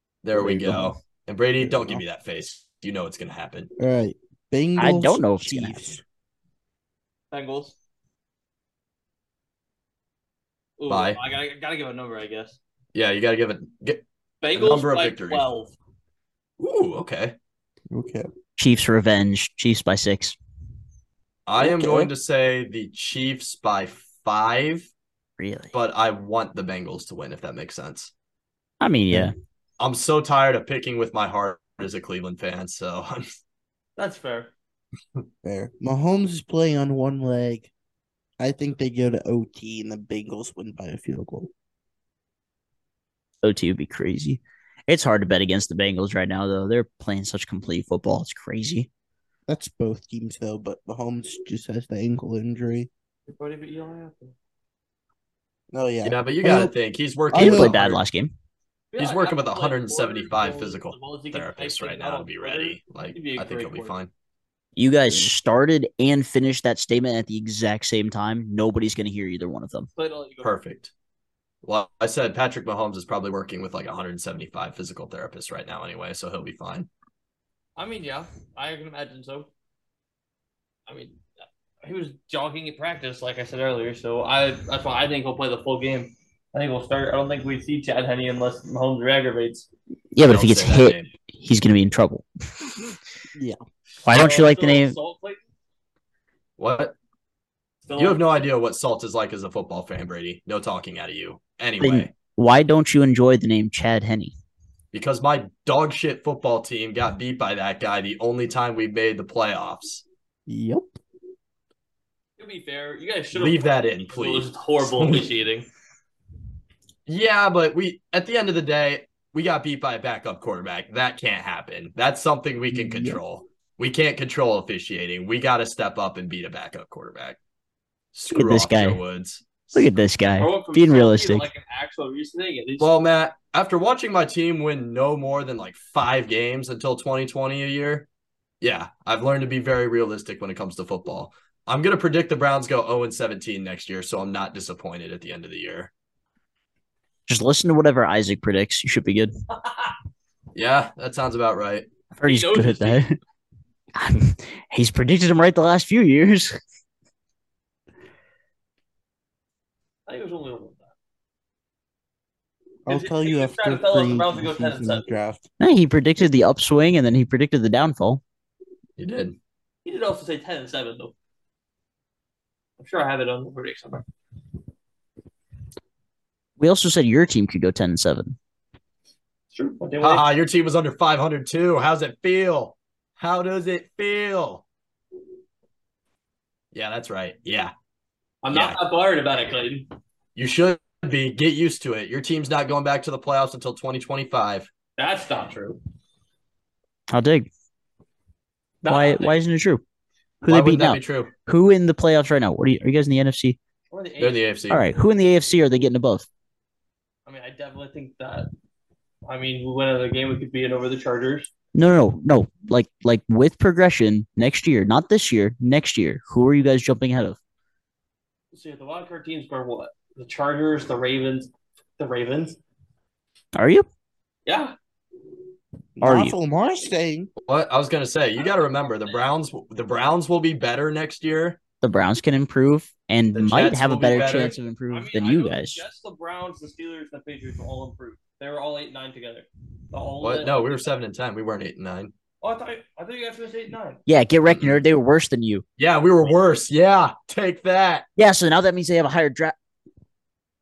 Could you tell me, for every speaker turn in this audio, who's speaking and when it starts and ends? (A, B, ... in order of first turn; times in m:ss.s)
0:00.2-0:03.7 A
0:00.3-0:00.9 B
0:01.6-0:02.0 B
0:03.8-0:06.0 B
0:04.8-0:05.8 C
0:07.3-0:07.8 D
0:10.8-0:12.6 D
0:10.9-0:11.2 A
0:12.9-0:14.0 A
0:14.4-0:15.7 D
0:14.5-0:15.4 A
0:16.6-0:17.3 A
0:17.9-0:18.2 B
0:18.6-0:20.4 C
0:21.4-0:24.9 A
0:21.6-0:22.1 B
0:25.4-0:25.7 C
0:25.7-0:28.1 A
0:28.8-0:29.3 C
0:29.8-0:33.2 A
0:34.0-0:34.5 D
0:35.4-0:37.7 B
0:38.4-0:41.5 B
0:43.4-0:48.9 C
0:49.5-0:52.9 B
0:53.3-0:54.3 D
0:55.7-0:56.7 B
0:56.0-0:58.0 A
0:57.3-0:57.8 B
0:57.3-0:58.3 C
0:58.9-1:04.0 D
0:59.0-1:04.1 A
1:04.8-1:09.9 C
1:10.0-1:10.6 D
1:10.4-1:10.9 A
1:11.6-1:16.9 A
1:17.8-1:19.5 D
1:20.9-1:21.2 D
1:21.8-1:29.7 D
1:30.1-1:32.7 C
1:30.2-1:31.1 A
1:34.0-1:35.0 C
1:34.0-1:35.4 D
1:36.6-1:36.9 A
1:37.8-1:38.2 D
1:38.0-1:42.1 A
1:41.8-1:44.3 C
1:44.9-1:50.0 A
1:50.5-1:50.8 B
1:52.4-1:55.7 D
1:53.3-1:55.3 A
1:57.1-2:07.4 A
2:02.7-2:03.2 B
2:08.1-2:09.7 A
2:08.3-2:09.0 C
2:09.7-2:11.5 C
2:10.4-2:12.9 D
2:12.8-2:18.1 A
2:18.6-2:25.9 A
2:27.3-2:29.3 C
2:29.6-2:29.9 D
2:30.5-2:31.9 A
2:32.1-2:33.2 C
2:32.2-2:33.1 D
2:33.9-2:36.6 C
2:40.1-2:40.9 D
2:42.8-2:45.5 B
2:42.9-2:45.0 D
2:45.6-2:48.2 C
2:49.0-2:49.4 A
2:49.8-2:51.1 D
2:52.8-2:54.0 D
2:56.6-2:58.4 C
2:59.5-3:00.2 D
3:00.0-3:04.6 A
3:06.7-3:07.7 A
3:08.4-3:09.9 D
3:08.5-3:08.8 A
3:10.4-3:14.7 A
3:15.0-3:15.8 D
3:17.1-3:17.5 C
3:18.8-3:19.4 D
3:18.8-3:19.8 C
3:20.4-3:23.6 C
3:20.5-3:21.3 A
3:23.9-3:24.4 D
3:24.2-3:24.8 A
3:24.7-3:26.3 C
3:27.2-3:28.5 D
3:29.2-3:31.5 D
3:31.7-3:37.4 C
3:38.5-3:42.6 D
3:43.5-3:43.8 C
3:44.4-3:44.8 D
3:46.0-3:47.3 B
3:46.0-3:46.4 C
3:47.4-3:51.6 A
3:48.4-3:49.3 D
3:51.8-3:55.8 C
3:53.3-3:54.5 A
3:54.0-4:00.9 D
4:00.2-4:02.1 A
4:02.4-4:04.0 D
4:04.1-4:05.6 C
4:04.5-4:04.8 A
4:05.8-4:08.0 A
4:08.2-4:09.5 C